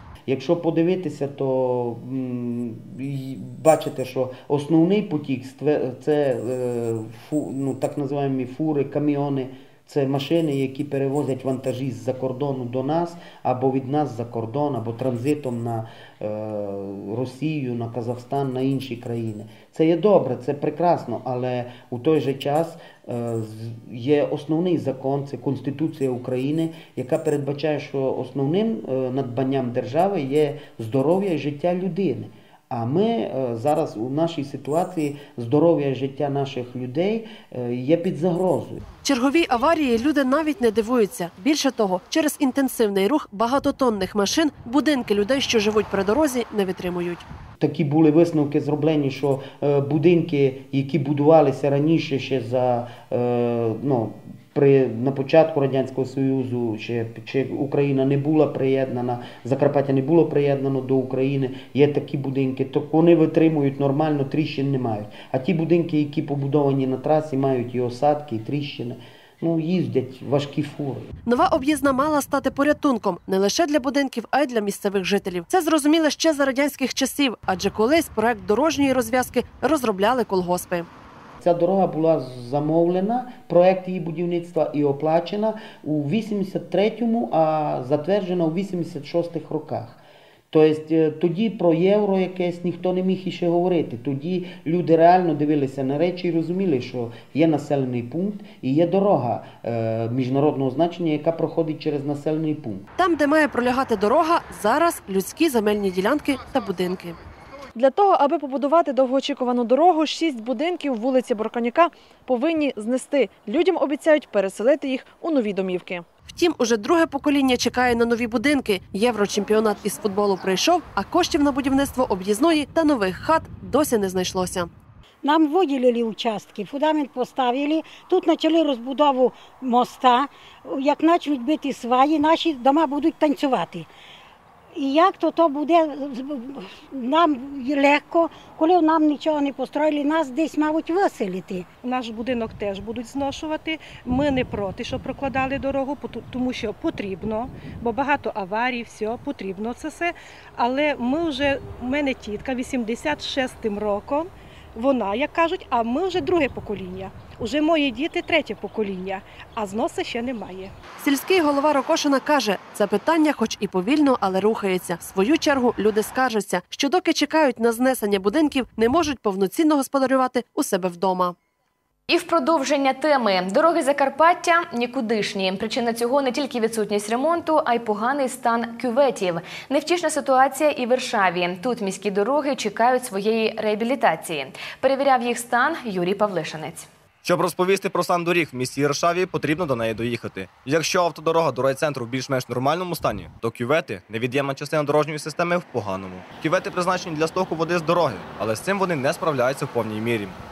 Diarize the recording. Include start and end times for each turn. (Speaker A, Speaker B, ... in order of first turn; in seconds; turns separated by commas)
Speaker A: 0.3-38.8, Speaker B: 39.0-47.2, Speaker A: 47.6-71.1, Speaker B: 71.2-80.9, Speaker A: 81.4-90.0, Speaker A: 90.5-102.8, Speaker B: 103.0-107.2, Speaker C: 107.8-116.1, Speaker B: 116.3-124.7, Speaker D: 125.2-133.9, Speaker D: 134.8-141.7, Speaker E: 141.8-160.7, Speaker B: 161.0-171.3, Speaker F: 172.1-186.9, Speaker G: 187.2-200.4